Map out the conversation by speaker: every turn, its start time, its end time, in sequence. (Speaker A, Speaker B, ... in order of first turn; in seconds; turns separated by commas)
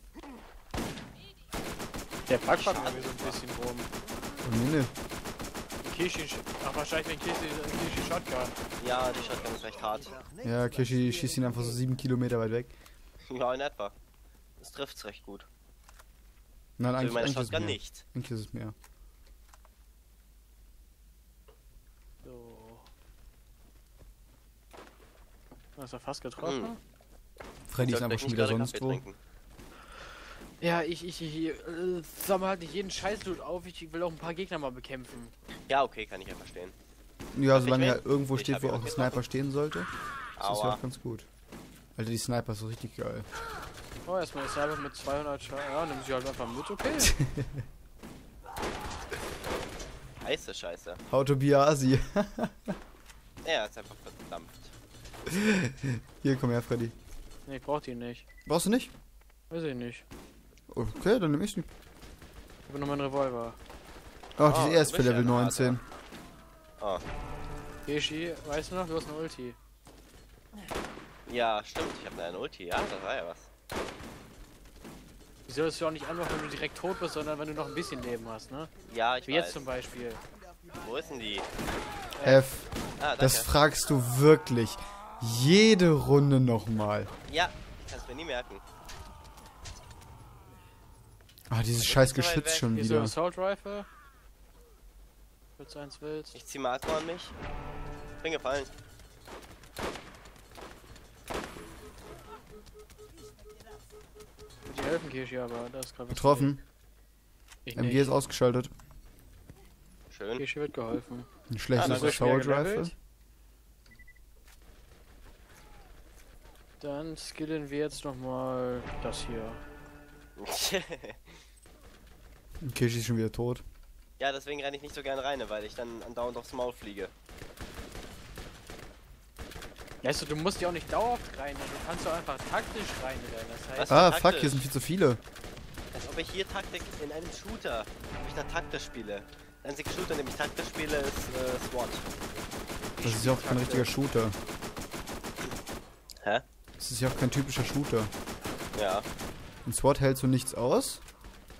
Speaker A: 2.3-3.9, Speaker B: 2.3-3.4, Speaker C: 4.4-4.9, Speaker A: 5.8-8.6, Speaker B: 8.8-10.3, Speaker C: 10.4-12.8, Speaker B: 13.3-13.9, Speaker B: 14.6-15.5, Speaker C: 16.8-18.8, Speaker B: 17.0-18.0, Speaker A: 22.2-22.9, Speaker A: 25.8-26.8, Speaker B: 26.4-26.7, Speaker C: 27.7-29.0, Speaker B: 27.8-29.2, Speaker A: 30.6-35.3, Speaker B: 35.7-36.7, Speaker C: 37.3-41.3, Speaker B: 37.5-39.2, Speaker B: 40.4-40.8, Speaker C: 42.0-43.3, Speaker A: 44.0-47.1, Speaker C: 47.0-47.6, Speaker B: 50.2-51.0, Speaker C: 51.1-52.8, Speaker B: 53.4-54.7, Speaker C: 55.3-57.0, Speaker A: 57.5-58.2, Speaker C: 58.5-58.9, Speaker A: 59.5-60.0, Speaker C: 60.7-61.7, Speaker A: 62.7-63.6, Speaker C: 64.4-65.8, Speaker B: 64.4-65.8, Speaker A: 67.8-69.6, Speaker B: 71.3-73.5, Speaker A: 75.5-78.7, Speaker B: 78.9-79.6, Speaker A: 79.3-80.2, Speaker B: 80.8-81.5, Speaker A: 82.2-82.5, Speaker C: 82.2-87.1, Speaker B: 83.0-83.5, Speaker B: 87.3-88.6, Speaker C: 91.5-93.2, Speaker B: 91.8-92.8, Speaker A: 92.7-93.9, Speaker A: 95.6-96.4, Speaker B: 96.3-97.3, Speaker B: 98.2-98.7, Speaker A: 104.7-106.6, Speaker C: 106.1-106.6, Speaker A: 107.7-108.1, Speaker C: 107.8-108.7, Speaker B: 110.1-110.5, Speaker A: 110.4-111.3, Speaker C: 111.5-112.9, Speaker B: 111.8-112.3, Speaker A: 111.8-112.9, Speaker A: 116.8-119.6, Speaker B: 120.4-121.4, Speaker C: 122.6-123.6, Speaker B: 124.2-127.1, Speaker A: 130.0-134.0, Speaker B: 133.8-134.7, Speaker C: 133.9-135.2, Speaker B: 135.9-142.1, Speaker A: 143.0-143.9, Speaker C: 143.0-144.4, Speaker C: 146.8-148.1, Speaker B: 148.8-149.1, Speaker C: 149.7-151.0